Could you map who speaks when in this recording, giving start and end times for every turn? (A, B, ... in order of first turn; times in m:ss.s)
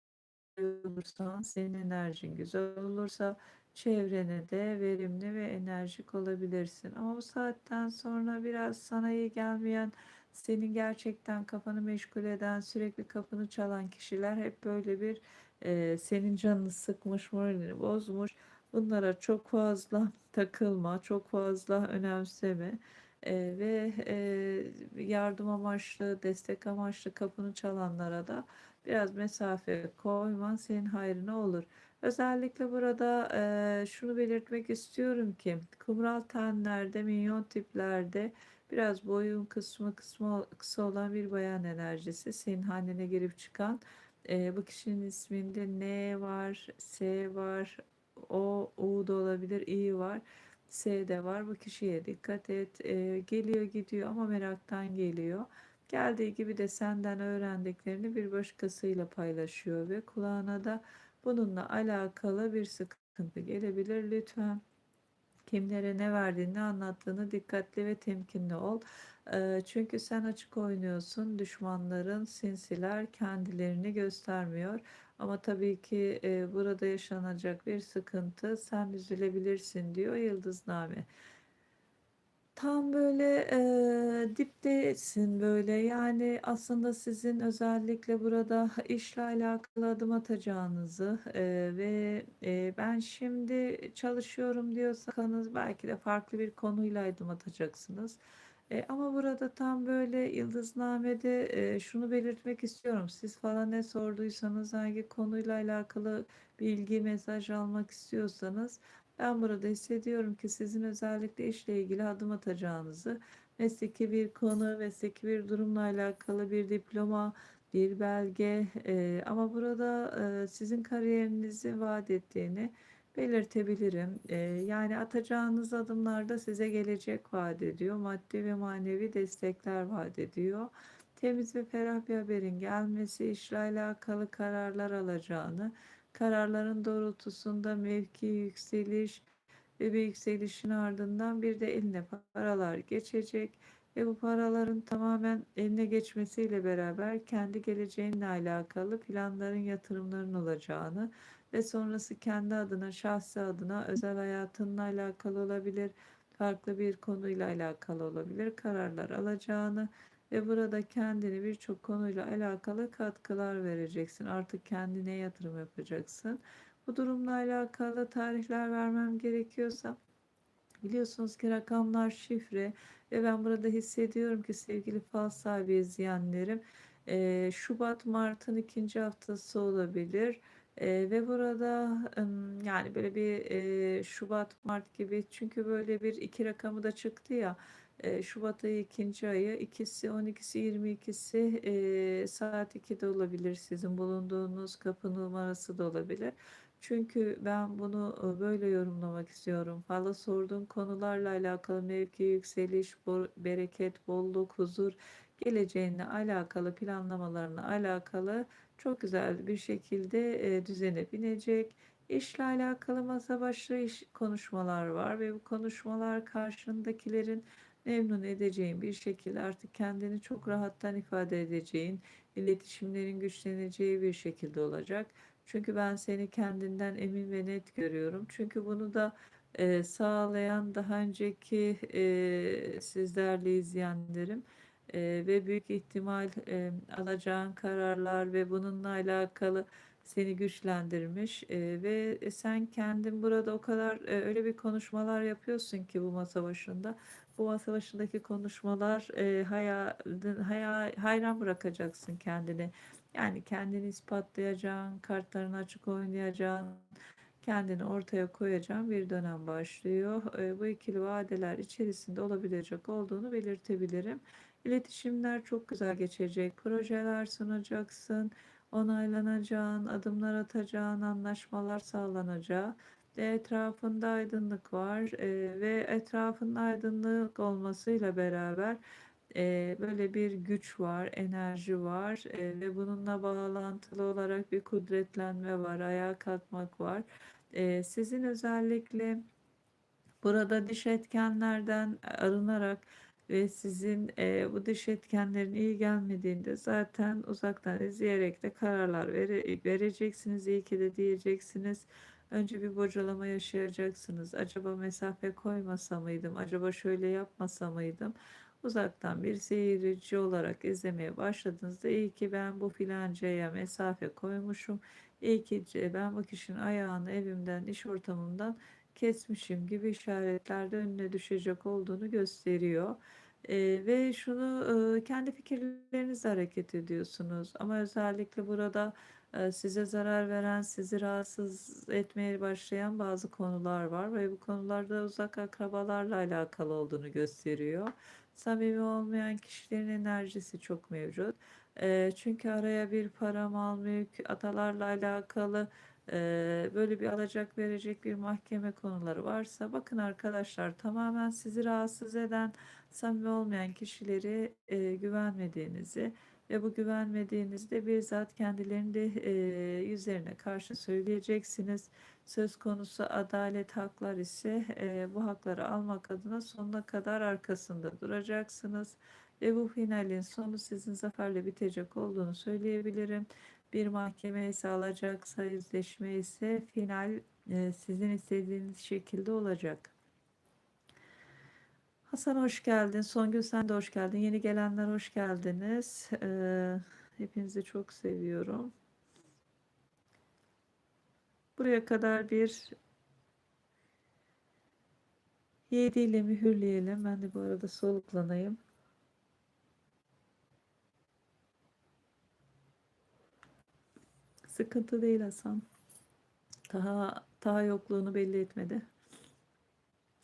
0:00.6-1:04.6 A
1:05.5-1:21.1 A
1:22.6-1:38.2 A
1:38.7-2:19.3 A
2:19.8-2:50.0 A
2:50.8-4:16.9 A
4:17.4-4:38.8 A
4:39.3-4:49.2 A
4:50.2-6:19.9 A
6:22.1-6:28.7 A
6:31.6-6:32.7 A
6:35.7-6:38.6 A
6:44.5-6:45.6 A
6:46.7-6:48.8 A